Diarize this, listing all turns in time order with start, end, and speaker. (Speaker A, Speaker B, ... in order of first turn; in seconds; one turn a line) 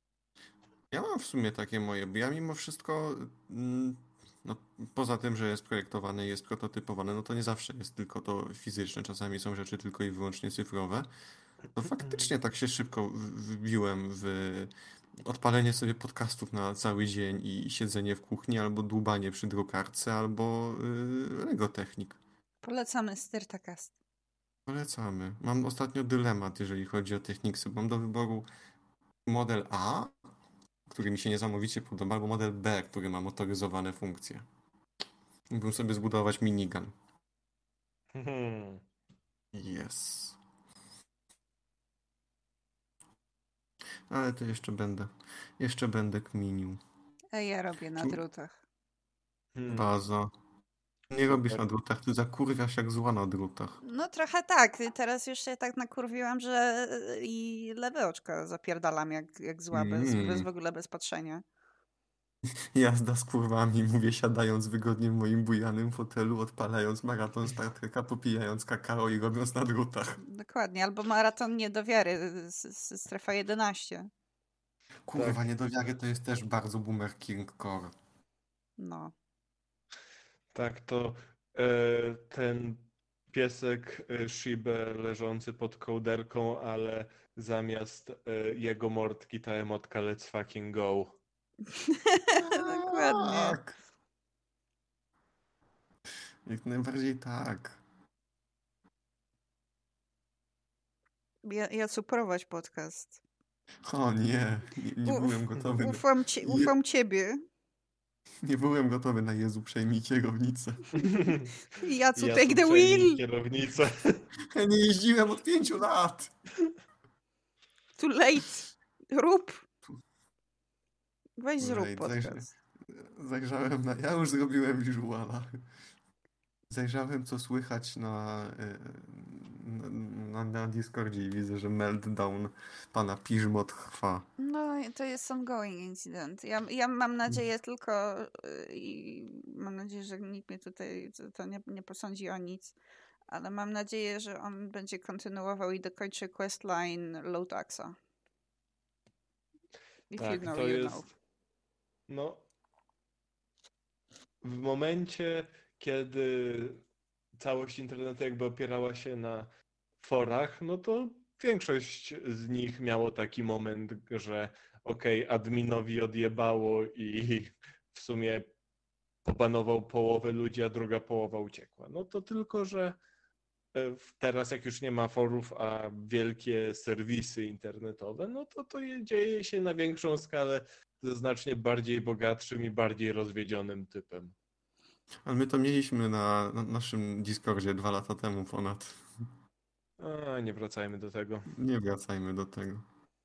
Speaker A: 0.9-11.1
Speaker A: 11.8-14.7
Speaker B: 11.9-12.3
Speaker A: 15.2-22.2
Speaker C: 22.6-23.9
Speaker A: 24.7-28.5
Speaker A: 29.3-30.1
Speaker A: 30.9-34.5
Speaker A: 35.5-36.9
Speaker B: 38.1-38.8
Speaker A: 39.5-40.4
Speaker A: 44.1-46.8
Speaker C: 47.3-48.6
Speaker B: 49.5-49.9
Speaker A: 49.7-50.3
Speaker A: 51.1-53.8
Speaker B: 51.3-51.6
Speaker C: 53.8-61.4
Speaker A: 59.7-60.5
Speaker A: 62.7-70.2
Speaker C: 70.2-74.1
Speaker A: 75.1-77.9
Speaker B: 75.2-75.4
Speaker C: 78.8-79.1
Speaker B: 80.5-91.2
Speaker C: 91.7-93.6
Speaker A: 92.4-93.8
Speaker A: 96.5-97.8
Speaker C: 101.4-103.2
Speaker A: 103.8-106.7
Speaker C: 105.0-107.4
Speaker A: 108.4-111.0
Speaker B: 110.9-111.5
Speaker C: 111.8-113.2
Speaker B: 112.2-114.2
Speaker A: 114.5-116.3
Speaker C: 118.0-119.6
Speaker C: 121.4-122.5
Speaker A: 121.6-125.6
Speaker A: 126.7-134.3
Speaker C: 134.4-142.7
Speaker C: 143.3-148.0
Speaker C: 150.1-151.1
Speaker B: 150.2-151.0
Speaker B: 152.1-152.4
Speaker B: 154.4-156.8
Speaker B: 157.4-159.5
Speaker B: 160.0-168.5
Speaker B: 169.2-173.0
Speaker B: 173.7-184.3
Speaker A: 185.2-189.0
Speaker B: 190.0-191.5
Speaker A: 191.5-192.8